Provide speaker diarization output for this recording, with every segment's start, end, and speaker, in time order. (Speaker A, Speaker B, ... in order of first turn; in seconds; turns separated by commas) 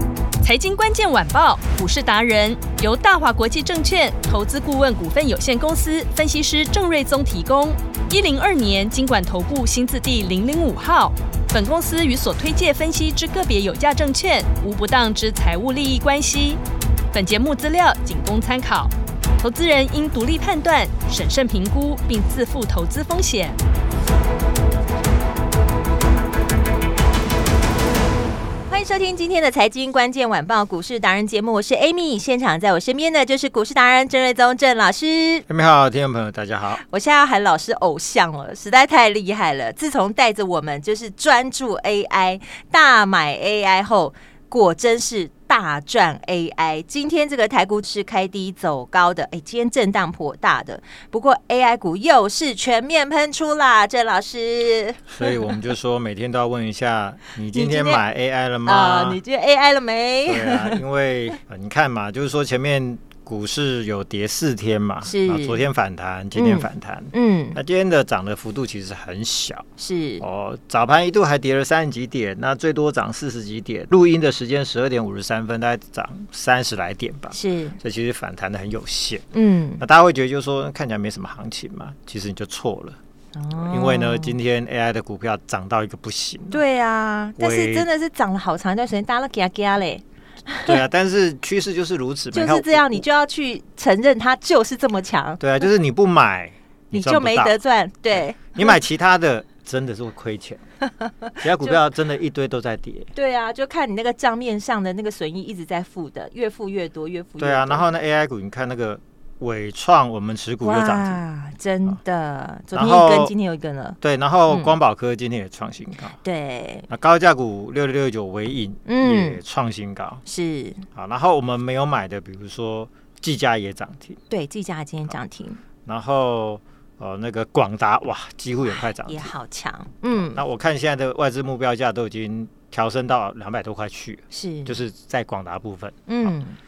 Speaker A: 0.4-16.6, Speaker A: 17.1-23.6, Speaker B: 28.7-35.5, Speaker C: 35.5-36.8, Speaker B: 36.7-55.4, Speaker C: 55.1-59.2, Speaker B: 57.5-58.0, Speaker B: 58.6-60.8, Speaker C: 60.3-69.7, Speaker B: 65.0-65.6, Speaker B: 66.4-67.6, Speaker B: 69.8-70.2, Speaker C: 70.2-79.2, Speaker B: 77.3-77.8, Speaker B: 79.3-79.8, Speaker C: 79.8-83.0, Speaker B: 83.3-84.4, Speaker C: 83.5-86.6, Speaker B: 86.5-90.8, Speaker C: 87.4-87.9, Speaker C: 90.6-93.1, Speaker B: 92.3-95.7, Speaker C: 95.4-97.6, Speaker B: 96.9-98.8, Speaker C: 98.1-100.6, Speaker B: 101.0-101.8, Speaker C: 101.4-103.1, Speaker B: 103.2-107.9, Speaker C: 107.4-111.2, Speaker B: 110.6-114.0, Speaker C: 112.7-113.3, Speaker C: 114.0-116.2, Speaker B: 114.5-114.8, Speaker B: 116.2-116.9, Speaker C: 116.9-120.2, Speaker B: 118.9-119.4, Speaker B: 120.3-120.8, Speaker C: 121.0-124.2, Speaker B: 124.3-125.6, Speaker C: 125.9-129.3, Speaker B: 128.8-130.4, Speaker C: 130.1-136.4, Speaker B: 134.3-134.8, Speaker B: 136.1-136.6